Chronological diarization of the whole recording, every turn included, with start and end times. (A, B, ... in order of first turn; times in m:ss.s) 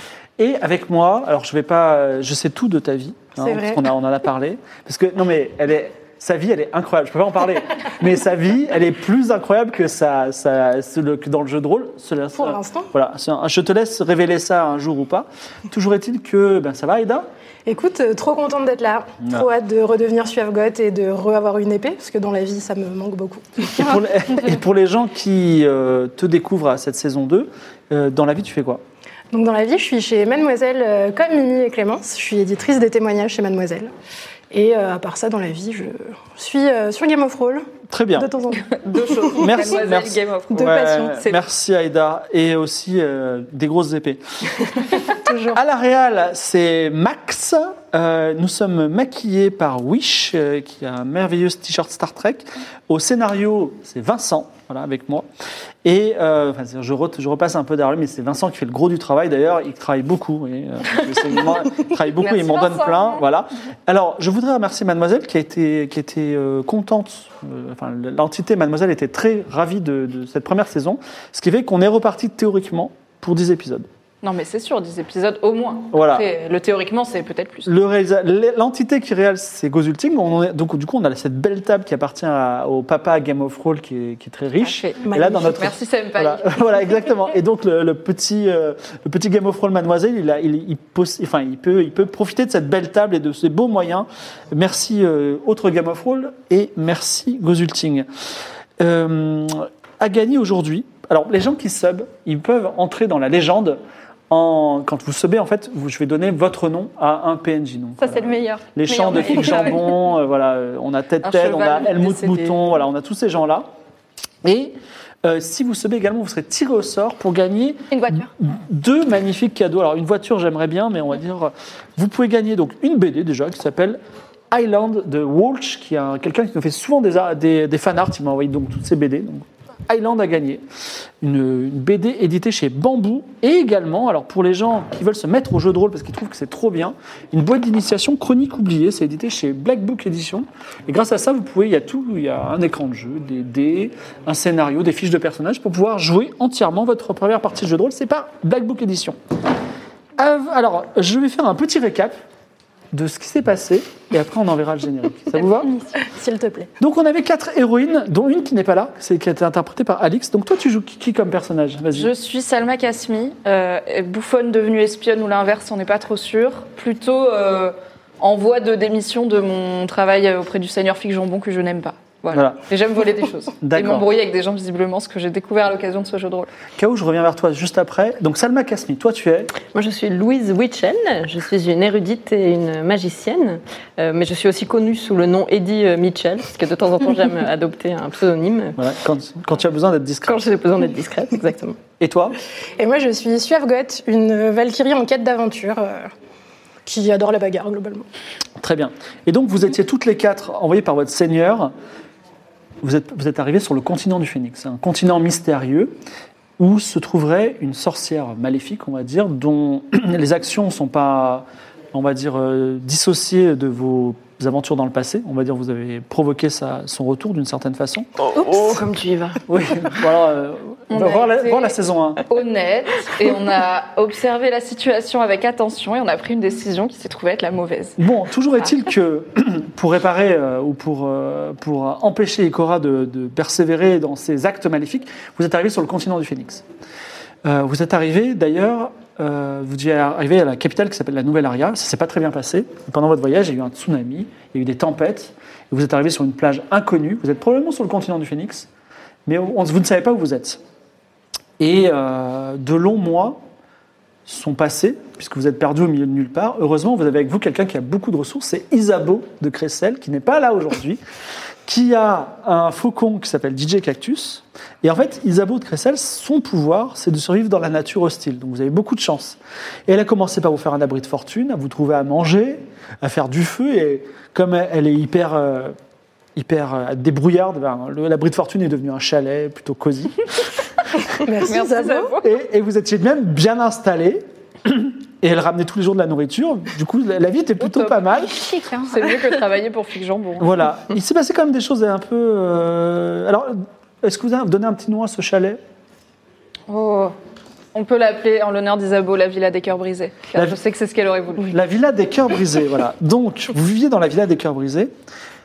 0:00.4-0:17.3 A
0:03.4-0:03.9 B
0:12.4-0:12.9 B
0:17.7-0:23.9 B
0:19.2-0:19.5 A
0:23.6-0:28.8 A
0:29.3-0:33.9 B
0:34.5-0:39.4 B
0:37.9-0:38.3 A
0:38.6-0:41.4 C
0:39.4-0:44.2 A
0:40.6-0:41.2 B
0:45.3-0:45.6 B
0:45.3-0:55.3 A
0:55.8-1:13.9 A
1:02.2-1:03.2 C
1:14.2-1:17.7 C
1:15.9-1:16.3 A
1:17.7-1:38.1 A
1:24.6-1:26.6 C
1:25.0-1:25.6 B
1:38.8-1:53.7 A
1:48.0-1:49.9 D
1:49.2-1:49.5 C
1:51.2-1:52.7 C
1:54.4-2:04.0 A
1:57.9-1:58.3 D
2:04.5-2:10.6 A
2:11.2-2:29.2 A
2:30.2-2:32.2 A
2:32.9-2:35.7 A
2:36.0-2:36.7 B
2:36.8-2:42.1 A
2:42.0-2:56.5 C
2:52.3-2:52.6 A
2:53.6-2:54.1 A
2:56.8-2:59.5 A
2:59.7-3:08.8 E
3:08.8-3:10.4 A
3:10.3-3:11.8 E
3:12.0-3:12.4 A
3:12.8-3:16.1 B
3:16.8-3:18.1 B
3:18.6-3:21.7 A
3:22.8-3:26.0 A
3:26.6-3:38.1 A
3:38.4-3:39.4 E
3:39.5-3:42.2 A
3:40.9-3:41.8 C
3:42.3-3:48.0 C
3:48.0-3:56.6 A
3:57.4-4:08.7 A
4:09.3-4:10.6 A
4:11.6-4:13.4 A
4:14.3-4:21.0 A
4:21.7-4:35.8 A
4:36.4-4:40.3 A
4:41.2-4:42.1 B
4:41.3-4:42.3 C
4:42.2-4:48.4 A
4:47.6-4:48.0 C
4:48.2-4:49.2 D
4:48.9-4:50.5 C
4:50.4-4:55.6 A
4:56.7-4:57.1 C
4:57.7-5:01.6 C
5:01.5-5:04.9 A